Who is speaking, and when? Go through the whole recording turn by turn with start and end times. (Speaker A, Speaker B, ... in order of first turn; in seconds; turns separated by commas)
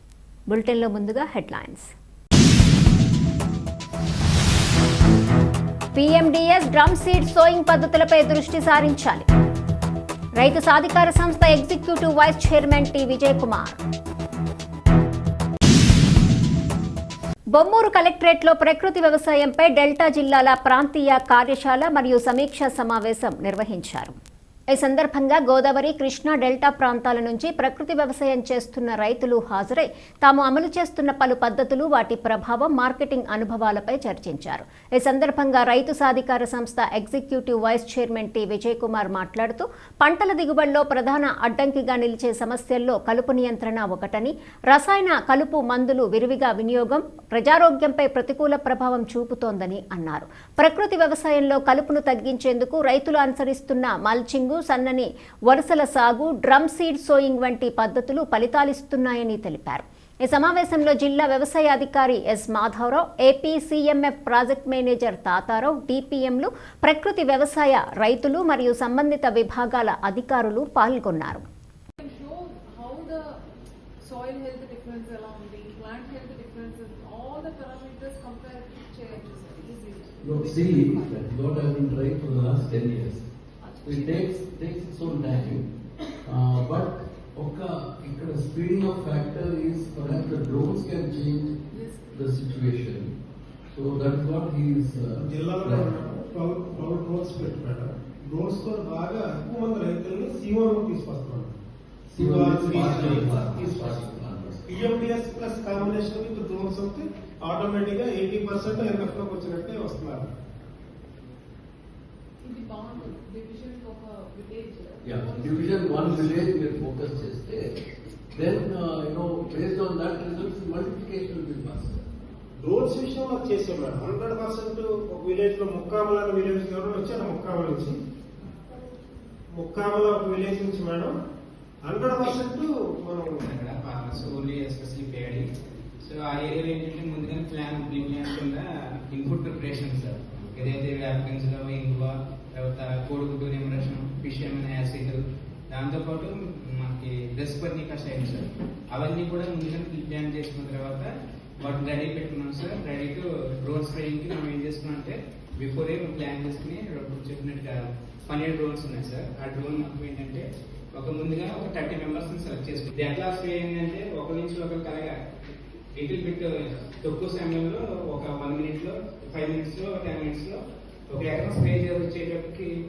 Speaker A: 0.5-1.9, Speaker A: 5.9-9.3, Speaker A: 10.4-13.8, Speaker A: 17.5-24.1, Speaker A: 24.7-71.4, Speaker B: 72.0-73.4, Speaker B: 74.0-81.3, Speaker C: 80.2-83.3, Speaker B: 83.6-84.4, Speaker C: 83.8-85.7, Speaker C: 86.2-93.1, Speaker B: 91.7-92.1, Speaker C: 93.7-96.0, Speaker D: 95.2-101.5, Speaker C: 102.1-104.8, Speaker D: 102.2-103.9, Speaker D: 104.7-110.3, Speaker B: 112.4-116.7, Speaker C: 115.0-117.7, Speaker C: 118.3-122.0, Speaker D: 122.6-128.0, Speaker D: 129.5-131.1, Speaker D: 131.8-133.4, Speaker E: 133.4-135.5, Speaker E: 136.0-165.1, Speaker E: 165.9-170.6, Speaker E: 171.1-172.7